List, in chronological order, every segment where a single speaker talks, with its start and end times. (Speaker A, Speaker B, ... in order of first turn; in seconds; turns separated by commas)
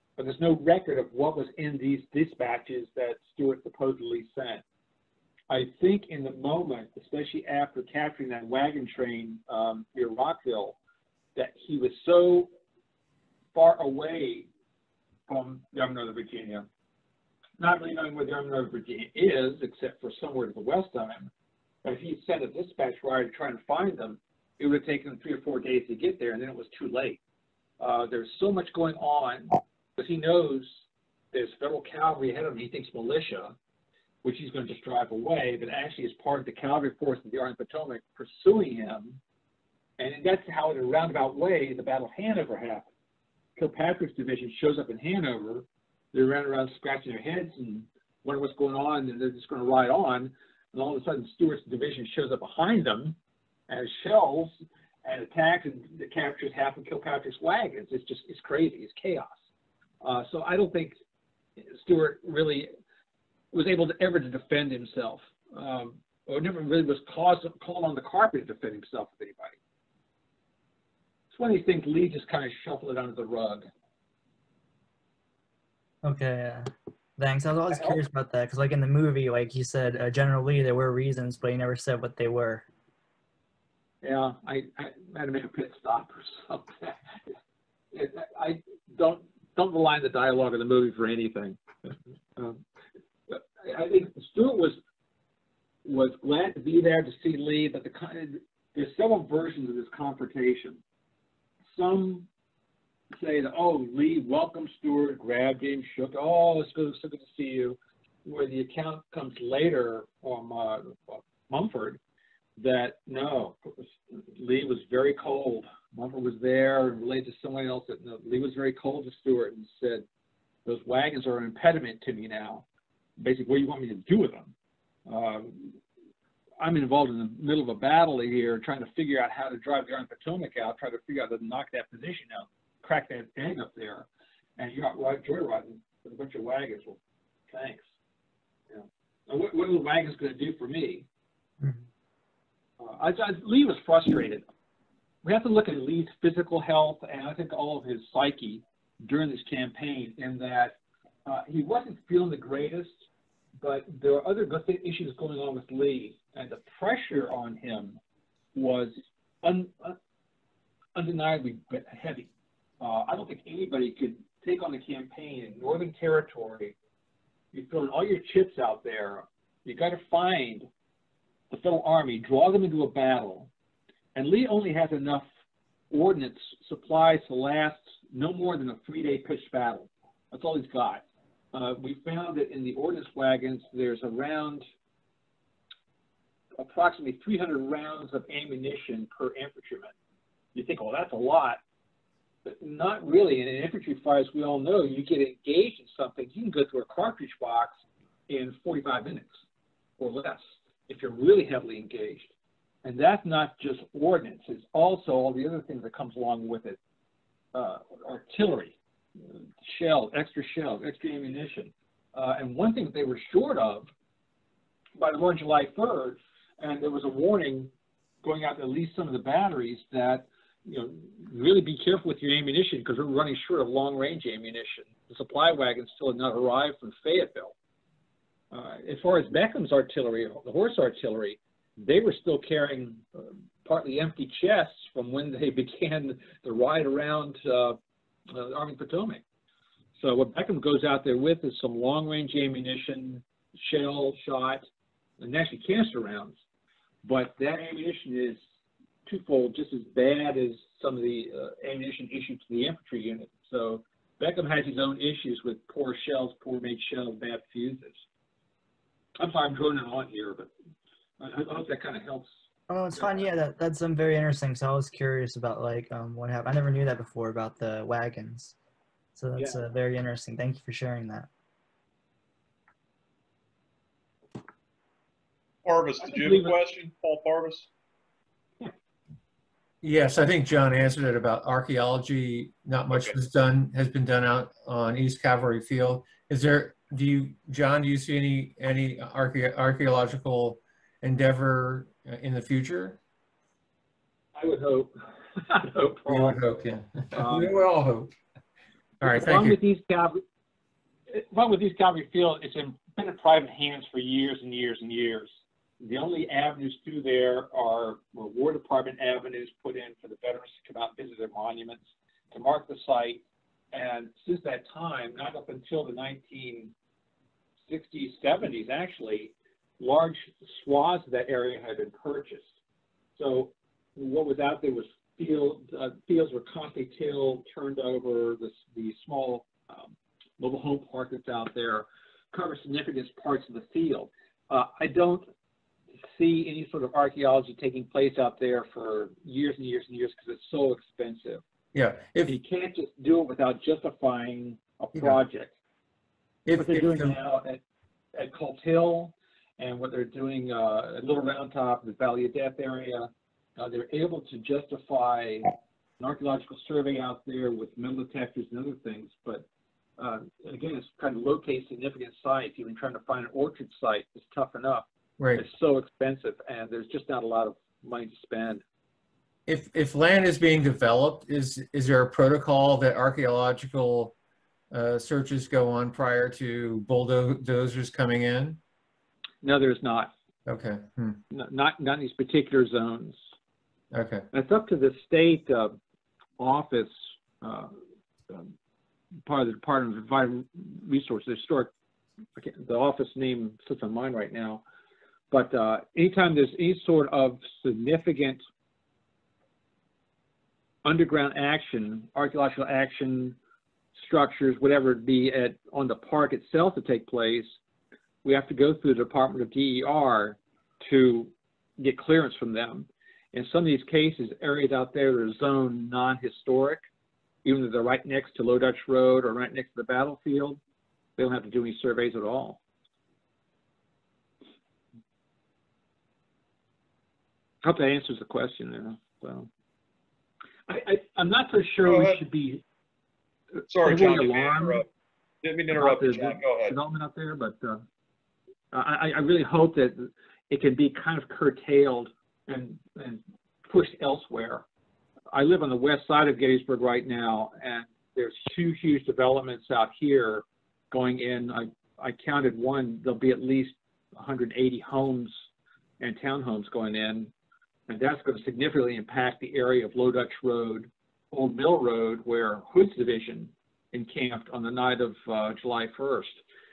Speaker A: 0.2-4.6, Speaker A: 5.5-10.8, Speaker A: 11.3-12.5, Speaker A: 13.5-14.5, Speaker A: 15.3-16.7, Speaker A: 17.6-21.3, Speaker A: 21.8-27.2, Speaker A: 27.8-30.8, Speaker A: 31.3-33.5, Speaker A: 34.2-39.2, Speaker A: 40.0-42.8, Speaker A: 43.6-53.1, Speaker A: 53.7-54.5, Speaker A: 55.0-59.3, Speaker A: 60.0-61.0, Speaker A: 61.6-62.7, Speaker A: 63.5-69.5, Speaker A: 71.3-73.7, Speaker B: 76.0-82.6, Speaker A: 77.7-78.0, Speaker A: 84.0-87.0, Speaker A: 87.9-91.6, Speaker A: 93.3-94.8, Speaker A: 95.8-100.8, Speaker A: 101.7-102.3, Speaker A: 103.1-112.0, Speaker A: 112.6-120.0, Speaker A: 120.7-122.6, Speaker A: 123.2-124.5, Speaker A: 125.1-125.8, Speaker A: 126.6-134.1, Speaker A: 134.6-137.0, Speaker A: 137.5-137.8, Speaker A: 138.7-141.1, Speaker A: 142.8-144.4, Speaker A: 145.2-152.9, Speaker A: 153.6-158.0, Speaker A: 158.5-160.0, Speaker A: 160.9-162.3, Speaker A: 162.8-166.7, Speaker A: 167.5-170.7, Speaker A: 171.5-173.5, Speaker A: 174.1-175.2, Speaker A: 175.9-184.7, Speaker A: 186.6-189.9, Speaker A: 190.5-191.6, Speaker A: 192.4-197.7, Speaker A: 198.3-199.4, Speaker A: 200.0-202.3, Speaker A: 202.8-206.8, Speaker A: 207.5-208.8, Speaker A: 209.6-213.9, Speaker A: 215.0-217.7, Speaker A: 218.2-227.5, Speaker A: 228.5-237.8, Speaker A: 238.3-239.2, Speaker A: 240.0-244.6, Speaker A: 245.2-246.4, Speaker A: 247.0-248.4, Speaker A: 249.1-258.0, Speaker A: 259.2-260.5, Speaker A: 261.2-262.4, Speaker B: 262.7-268.5, Speaker B: 269.1-271.3, Speaker C: 275.6-277.7, Speaker A: 276.0-276.6, Speaker D: 279.8-293.0, Speaker A: 294.3-296.4, Speaker D: 296.1-298.1, Speaker A: 297.1-297.5, Speaker D: 299.0-299.6, Speaker A: 299.0-300.2, Speaker A: 301.1-313.2, Speaker A: 313.7-316.7, Speaker A: 317.7-322.4, Speaker A: 323.1-335.2, Speaker A: 336.1-341.4, Speaker D: 341.7-342.3, Speaker A: 342.2-345.5, Speaker D: 346.4-347.1, Speaker A: 346.6-347.6, Speaker A: 348.1-355.5, Speaker A: 356.0-359.4, Speaker A: 360.0-368.6, Speaker D: 369.5-374.1, Speaker D: 374.7-378.6, Speaker A: 379.4-380.1, Speaker D: 380.4-381.2, Speaker A: 381.3-383.2, Speaker D: 383.9-384.2, Speaker A: 384.3-385.8, Speaker A: 386.4-387.7, Speaker A: 389.2-391.7, Speaker A: 392.4-394.6, Speaker A: 395.3-398.4, Speaker A: 400.8-403.4, Speaker A: 403.9-407.5, Speaker A: 408.2-416.9, Speaker A: 417.4-420.6, Speaker A: 421.2-422.6, Speaker A: 427.6-429.5, Speaker A: 430.7-432.6, Speaker C: 431.8-432.2, Speaker A: 433.6-434.8, Speaker C: 433.7-434.9, Speaker C: 435.4-436.8, Speaker A: 435.7-437.8, Speaker A: 438.7-444.6, Speaker A: 445.3-455.4, Speaker A: 456.0-457.3, Speaker A: 457.9-466.4